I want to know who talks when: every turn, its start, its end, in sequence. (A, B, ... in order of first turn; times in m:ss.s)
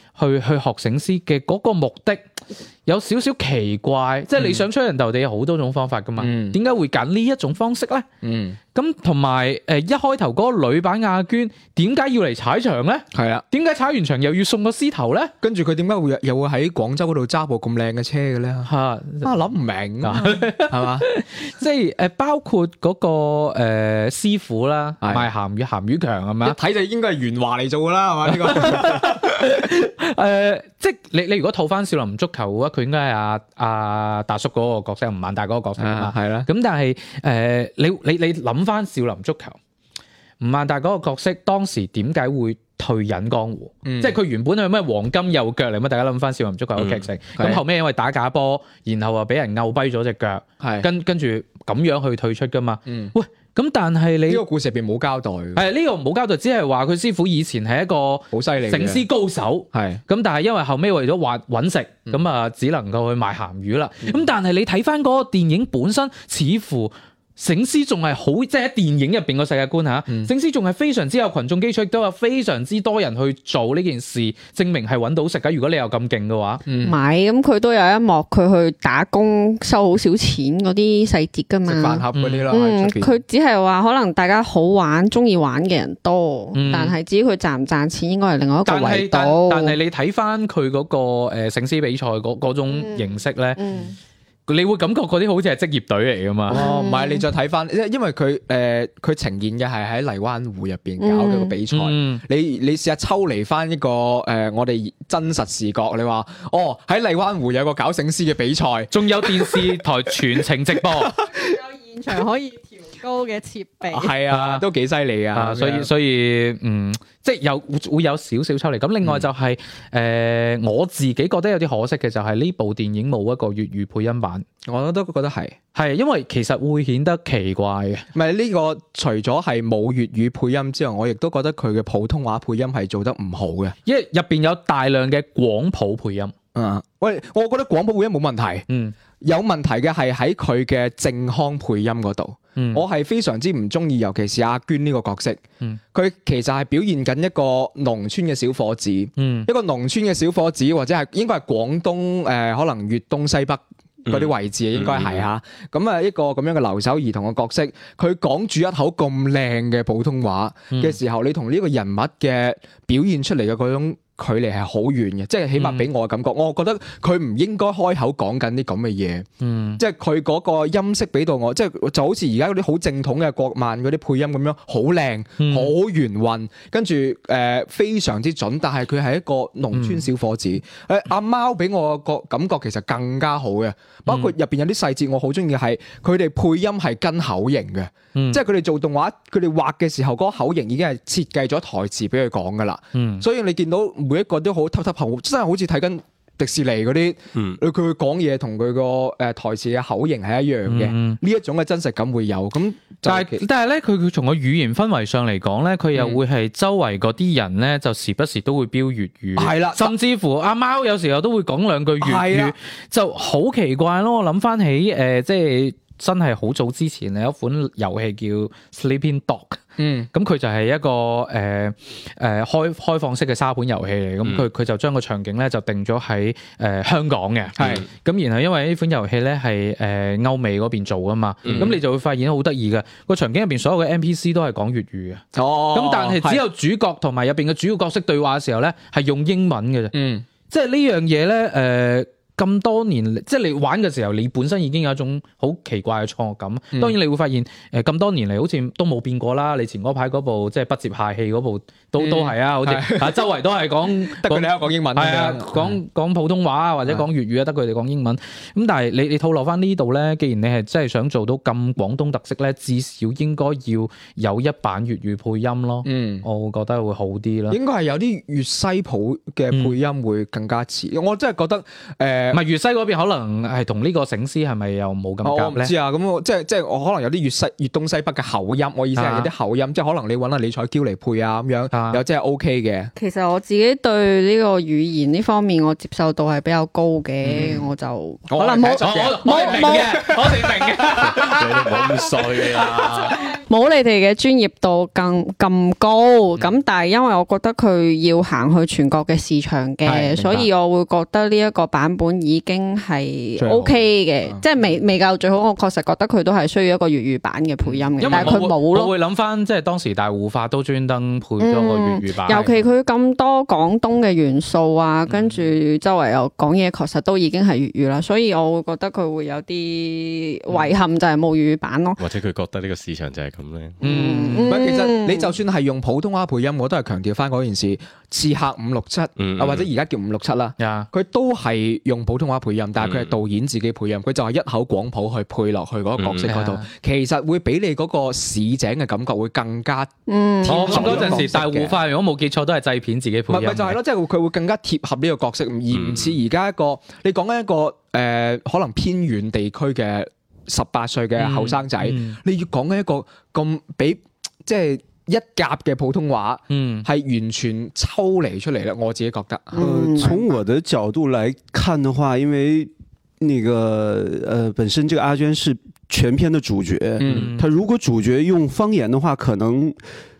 0:00.2-0:02.2 A
0:02.8-0:08.0 A
0:04.4-0:04.6 B
0:06.2-0:06.6 B
0:08.2-0:08.6 B
0:08.7-0:15.3 A
0:13.1-0:13.4 B
0:15.4-0:18.7 B
0:18.6-0:19.3 A
0:19.2-0:21.1 B
0:20.0-0:26.6 A
0:25.0-0:25.3 B
0:26.4-0:29.5 B
0:28.3-0:39.6 A
0:35.8-0:36.5 B
0:40.4-0:54.4 A
0:43.8-0:44.2 B
0:46.8-0:47.0 C
0:50.6-0:50.9 B
0:52.9-0:53.1 B
0:54.3-0:55.6 B
0:55.5-1:16.6 A
0:58.3-0:59.0 B
0:59.7-1:00.0 B
1:16.6-1:17.0 B
1:16.8-1:29.8 D
1:21.6-1:23.2 B
1:22.1-1:22.5 A
1:26.5-1:27.0 A
1:28.6-1:33.6 A
1:32.7-1:34.0 D
1:34.5-1:36.6 A
1:36.5-1:37.2 D
1:36.5-1:51.4 B
1:41.0-1:41.5 D
1:41.7-1:42.2 A
1:48.9-1:51.1 A
1:51.3-1:54.1 D
1:53.9-1:55.9 B
1:54.3-1:54.6 A
1:55.3-2:04.4 A
2:04.6-2:05.6 B
2:05.7-2:08.1 A
2:08.1-2:13.8 B
2:13.8-2:16.3 A
2:16.5-2:18.6 B
2:18.7-2:18.9 A
2:19.2-2:25.4 B
2:22.6-2:22.8 A
2:25.9-3:23.4 B
2:29.2-2:29.5 A
2:34.0-2:35.2 C
2:40.7-2:41.0 A
2:45.5-2:45.9 A
2:49.4-2:49.8 A
2:55.4-2:55.7 A
2:59.7-3:00.1 A
3:04.0-3:04.3 A
3:08.1-3:08.4 A
3:12.9-3:13.2 A
3:20.6-3:21.2 A
3:23.0-3:39.6 A
3:25.9-3:26.2 B
3:29.4-3:29.9 B
3:32.0-3:32.5 B
3:39.8-3:40.1 B
3:40.1-3:59.9 A
3:47.6-3:47.8 B
3:47.6-3:47.9 C
3:51.5-3:51.7 B
3:55.3-3:56.4 B
3:59.9-4:00.2 B
4:00.5-4:27.6 A
4:12.0-4:13.3 B
4:13.8-4:15.8 B
4:25.8-4:26.2 B
4:27.5-4:32.4 B
4:29.5-4:29.8 A
4:32.3-4:35.7 A
4:35.2-4:42.9 B
4:38.9-4:39.3 A
4:41.7-4:42.0 A
4:43.0-4:50.2 D
4:47.2-4:47.6 A
4:48.3-4:50.8 B
4:48.4-4:53.2 A
4:51.0-4:53.2 C
4:53.1-5:08.9 D
4:59.8-5:00.5 B
5:03.4-5:04.4 B
5:08.0-5:12.4 A
5:08.1-5:08.4 B
5:11.4-5:22.0 D
5:12.3-5:12.6 B
5:22.0-5:23.8 C
5:23.8-5:25.3 D
5:23.8-5:24.6 A
5:24.4-5:39.9 B
5:29.2-5:29.6 C
5:30.6-5:30.9 A
5:32.8-5:33.1 C
5:36.0-5:36.3 C
5:36.3-5:36.7 A
5:40.1-5:41.3 D
5:40.4-5:41.8 B
5:40.4-5:43.8 A
5:43.3-6:00.3 B
5:45.7-5:46.1 C
5:51.2-5:52.2 A
5:56.5-5:56.9 A
5:59.6-6:00.1 D
5:59.6-6:09.8 E
6:07.0-6:07.3 B
6:07.1-6:07.5 A